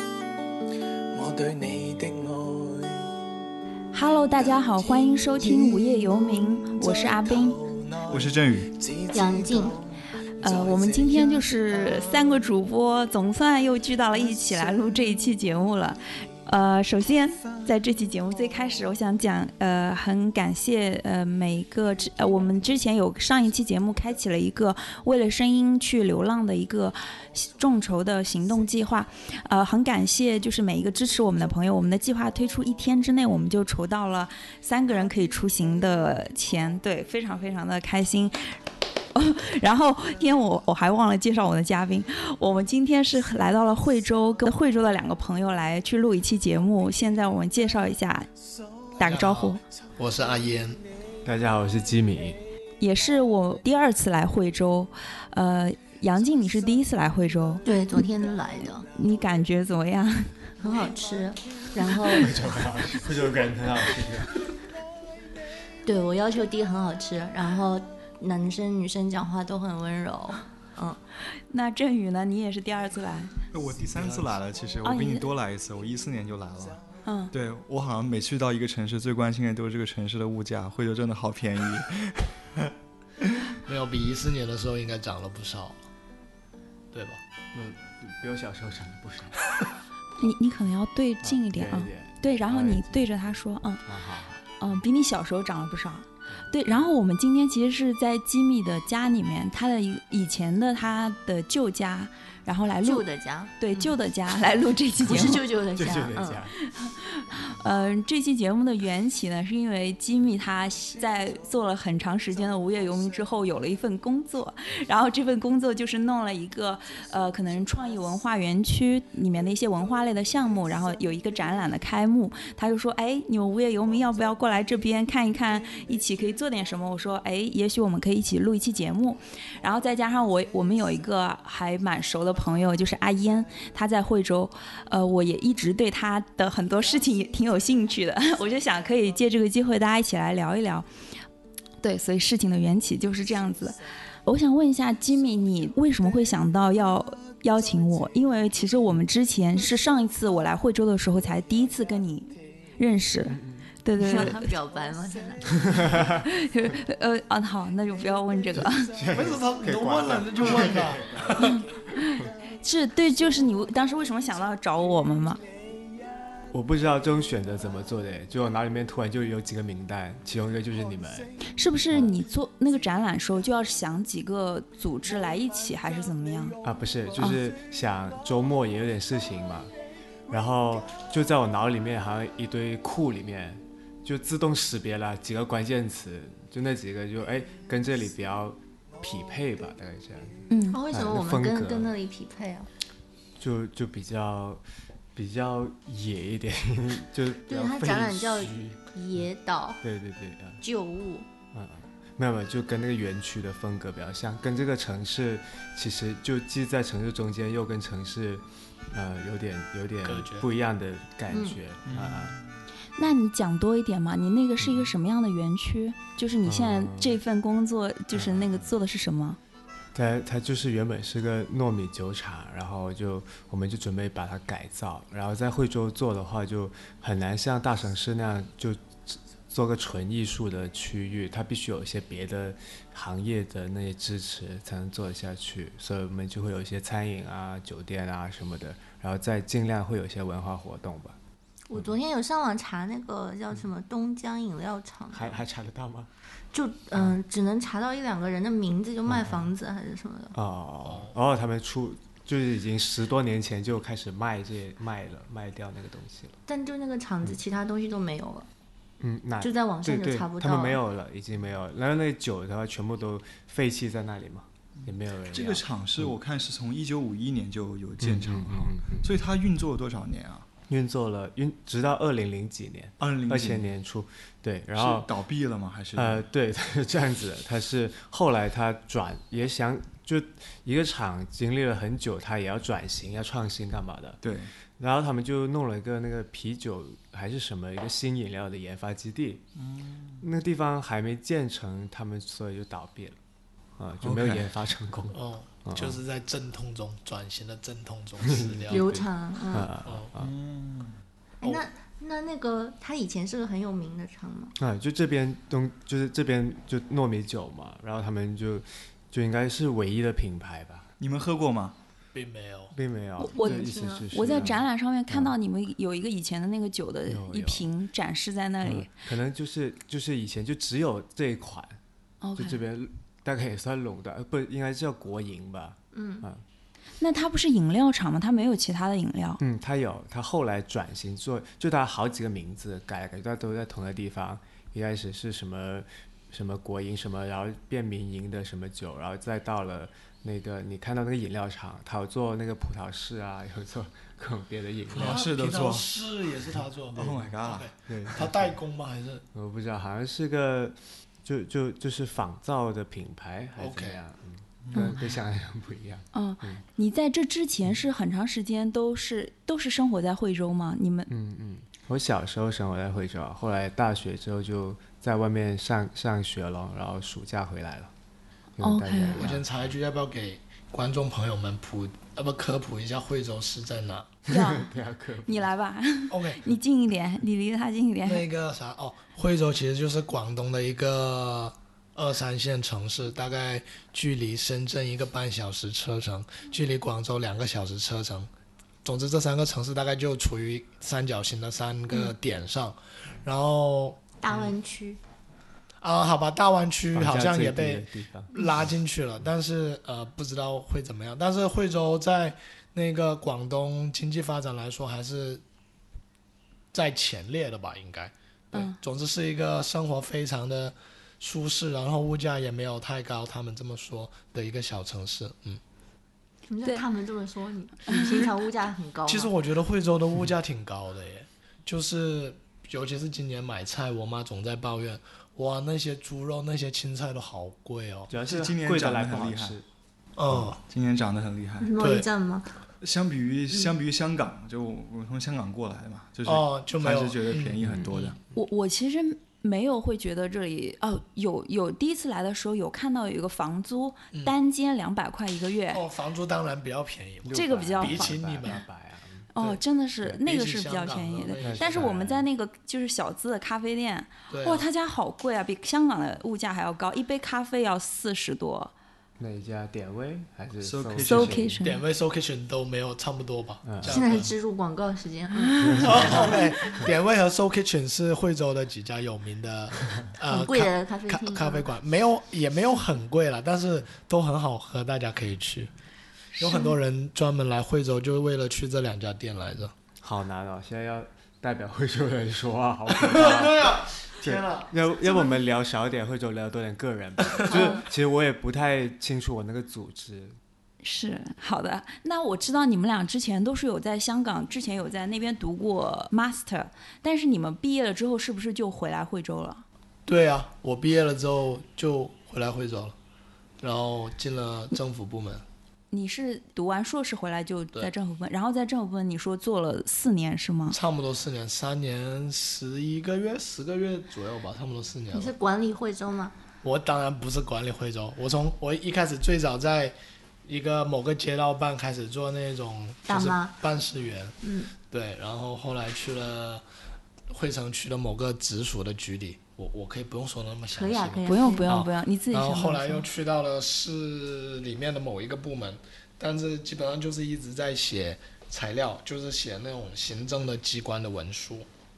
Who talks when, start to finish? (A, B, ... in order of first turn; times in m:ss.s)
0:01.1-0:03.1 A
0:03.9-0:07.6 B
0:04.3-0:12.5 A
0:08.1-0:08.7 C
0:09.1-0:09.8 D
0:10.4-0:38.4 B
0:14.1-0:15.2 A
0:39.1-0:48.3 B
0:49.0-0:49.6 B
0:49.0-0:50.8 E
0:51.2-0:52.4 F
0:52.8-0:57.6 B
0:57.6-0:58.9 D
0:58.9-1:00.4 B
1:00.6-1:02.3 D
1:02.1-1:04.4 F
1:05.8-1:11.0 D
1:11.5-1:13.4 B
1:13.5-1:16.8 C
1:14.0-1:14.3 E
1:14.8-1:15.3 B
1:17.1-1:17.3 B
1:17.3-1:22.7 C
1:23.6-1:25.8 E
1:26.9-1:27.2 E
1:27.5-1:29.4 F
1:30.2-1:33.8 B
1:31.2-1:33.1 F
1:33.9-1:34.4 F
1:34.6-1:43.1 B
1:42.8-1:43.9 D
1:43.6-1:45.4 B
1:45.0-1:46.5 D
1:45.1-1:46.6 F
1:46.6-2:20.9 B
2:21.8-2:34.5 B
2:33.3-2:33.7 F
2:34.0-2:36.0 D
2:35.7-2:36.2 F
2:36.1-2:38.9 B
2:38.8-2:41.4 F
2:39.1-2:41.6 E
2:41.5-2:45.4 B
2:46.5-2:51.4 F
2:51.5-2:56.6 B
2:51.9-2:52.2 F
2:56.6-2:59.7 F
3:00.3-3:11.9 F
3:10.5-3:10.8 B
3:10.7-3:12.7 D
3:13.4-3:14.6 F
3:15.2-3:19.2 F
3:17.5-3:19.8 D
3:19.8-3:20.6 F
3:20.6-3:21.3 D
3:21.5-3:32.4 F
3:30.0-3:30.5 E
3:31.3-3:31.6 D
3:31.8-3:32.6 C
3:33.0-3:39.4 B
3:34.6-3:34.9 F
3:36.4-3:37.2 F
3:38.1-3:38.7 F
3:39.9-4:01.2 F
4:01.7-4:05.4 D
4:05.1-4:06.1 F
4:06.5-4:10.4 D
4:09.1-4:09.5 F
4:10.3-4:16.4 F
4:10.8-4:11.2 E
4:16.5-4:18.5 D
4:19.0-4:26.1 F
4:19.4-4:20.8 D
4:24.8-4:30.5 C
4:28.0-4:29.1 F
4:30.7-4:35.1 F
4:33.0-4:33.7 C
4:34.8-4:36.2 C
4:36.0-4:44.2 F
4:44.2-4:44.5 C
4:44.8-4:49.4 F
4:49.6-4:50.2 C
4:50.2-4:53.2 F
4:53.8-4:56.0 F
4:54.0-4:54.5 C
4:55.1-4:58.8 E
4:58.2-5:00.3 F
4:58.7-4:59.7 D
4:59.9-5:00.1 E
5:00.2-5:01.0 C
5:01.4-5:04.6 D
5:04.6-5:10.9 F
5:11.0-5:11.8 C
5:12.1-5:12.8 E
5:12.7-5:15.4 F
5:13.2-5:18.9 B
5:13.3-5:14.1 D
5:17.1-5:17.7 F
5:18.6-5:21.8 F
5:22.2-5:22.6 B
5:22.4-5:26.4 F
5:25.9-5:26.3 D
5:27.0-5:29.4 B
5:29.4-5:45.2 F
5:44.9-5:45.9 C
5:45.0-5:49.2 E
5:46.9-5:47.7 C
5:47.9-5:48.5 F
5:49.3-5:56.6 F
5:53.6-5:54.0 E
5:54.6-5:55.0 C
5:56.1-6:01.1 B
6:01.1-6:07.9 F
6:08.6-6:09.5 F
6:08.6-6:09.2 B
6:09.1-6:14.1 E
6:14.3-6:14.7 B
6:14.3-6:15.5 F
6:15.3-6:18.3 B
6:16.1-6:16.4 E
6:18.0-6:28.3 E
6:28.8-6:34.5 E
6:34.2-6:35.0 D
6:35.8-6:45.4 E
6:36.9-6:38.4 F
6:46.7-6:55.6 E
6:48.5-6:48.8 B
6:56.5-6:59.3 D
6:59.1-7:08.1 E
7:08.1-7:09.6 F
7:08.2-7:09.6 C
7:10.2-7:10.6 E
7:10.7-7:11.7 C
7:11.6-7:12.5 D
7:11.8-7:12.1 E
7:12.8-7:18.2 C
7:16.3-7:18.2 E
7:17.6-7:17.9 F
7:18.3-7:25.8 B
7:25.7-7:28.6 E
7:27.2-7:29.3 F
7:27.3-7:28.2 B
7:29.4-7:38.7 B
7:30.2-7:32.0 E
7:31.4-7:32.3 F
7:34.3-7:34.7 E
7:39.2-7:41.6 F
7:40.6-7:41.5 C
7:41.0-7:41.8 B
7:41.6-7:44.3 E
7:43.6-7:44.0 F
7:43.8-7:46.5 D
7:45.4-7:45.9 B
7:45.6-7:46.3 F
7:45.8-7:55.7 E
7:50.2-7:51.7 D
7:56.4-7:56.8 B
7:56.4-7:59.7 E
8:00.0-8:10.4 F
8:02.9-8:04.7 E
8:07.5-8:07.8 D
8:10.8-8:19.6 B
8:20.1-8:23.0 E
8:23.6-8:25.4 E
8:25.9-8:30.8 B
8:30.7-8:35.3 E
8:35.1-8:36.4 D
8:36.6-8:46.6 E
8:43.1-8:43.6 D
8:44.4-8:44.7 D
8:47.3-9:01.7 E
8:50.7-8:51.7 D
8:51.3-8:53.1 B